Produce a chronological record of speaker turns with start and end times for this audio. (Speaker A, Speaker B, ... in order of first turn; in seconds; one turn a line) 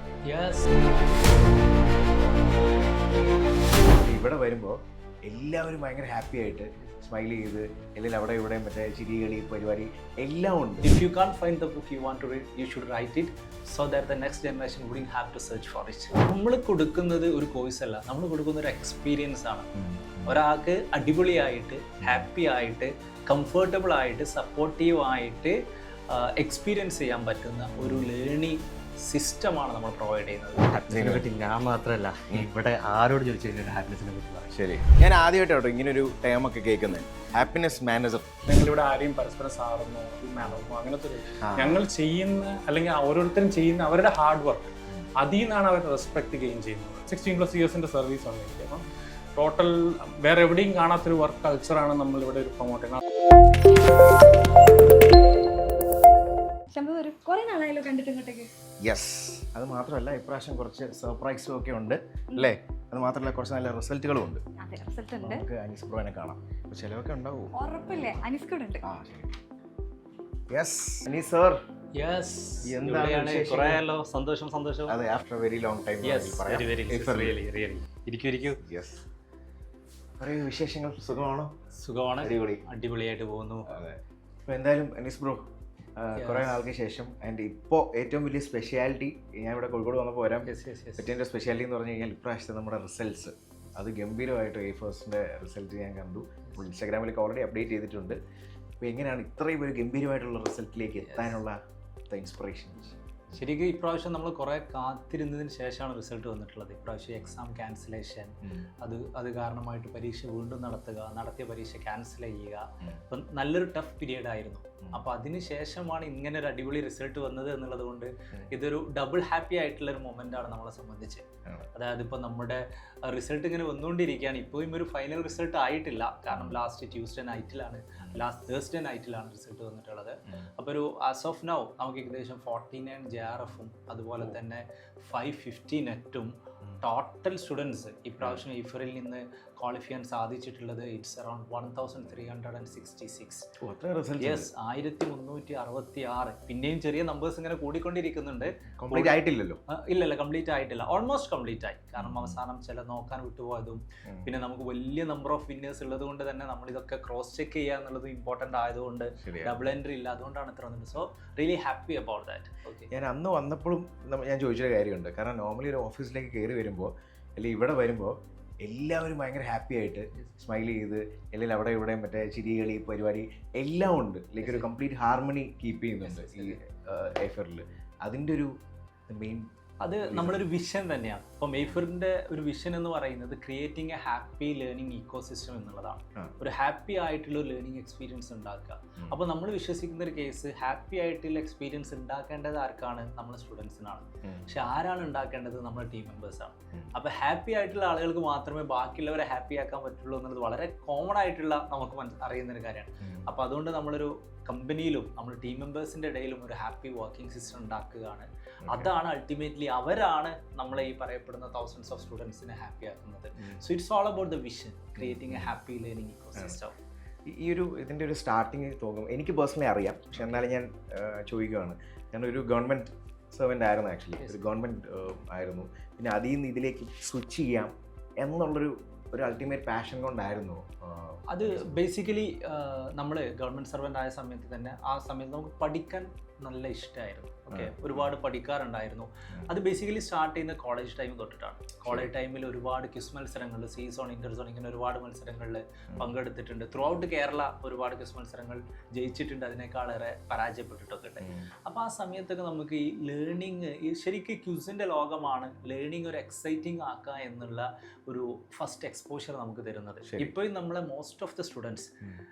Speaker A: 0.2-0.7
Speaker B: 3.9-10.9
Speaker A: 10.8-19.7
Speaker B: 19.7-20.4
Speaker A: 20.2-25.6
Speaker B: 22.0-22.3
Speaker A: 26.1-30.8
Speaker B: 27.8-28.1
Speaker C: 30.7-34.5
Speaker B: 30.8-31.3
Speaker B: 34.5-38.2
Speaker D: 38.5-48.8
Speaker B: 41.5-41.8
Speaker D: 49.4-53.0
Speaker E: 56.7-58.5
Speaker B: 58.8-64.4
Speaker E: 64.6-65.4
Speaker B: 65.2-67.5
Speaker E: 67.6-68.8
Speaker B: 68.8-69.4
Speaker B: 70.5-71.6
Speaker A: 71.9-75.0
Speaker B: 72.6-73.8
Speaker B: 74.9-77.4
Speaker A: 76.0-78.6
Speaker B: 78.6-79.0
Speaker B: 80.2-81.5
Speaker A: 81.7-83.8
Speaker B: 82.2-82.6
Speaker B: 83.7-85.4
Speaker B: 86.0-98.2
Speaker A: 86.1-86.7
Speaker A: 90.4-91.1
Speaker B: 98.8-101.6
Speaker A: 101.0-101.4
Speaker B: 102.1-103.0
Speaker A: 103.3-143.4
Speaker B: 126.3-126.6
Speaker B: 143.6-144.5
Speaker A: 144.2-162.9
Speaker B: 148.8-149.6
Speaker B: 152.0-152.4
Speaker B: 154.1-154.3
Speaker B: 159.2-159.6
Speaker B: 162.9-178.5
Speaker A: 174.4-174.7
Speaker A: 176.0-176.6
Speaker B: 179.1-180.4
Speaker A: 179.8-216.8
Speaker B: 203.0-203.3
Speaker B: 208.6-208.9
Speaker B: 215.0-215.5
Speaker B: 217.2-231.7
Speaker A: 220.1-220.4
Speaker A: 224.2-224.5
Speaker A: 231.3-261.9
Speaker B: 237.5-238.1
Speaker B: 241.8-242.1
Speaker B: 251.2-251.5
Speaker B: 260.0-260.4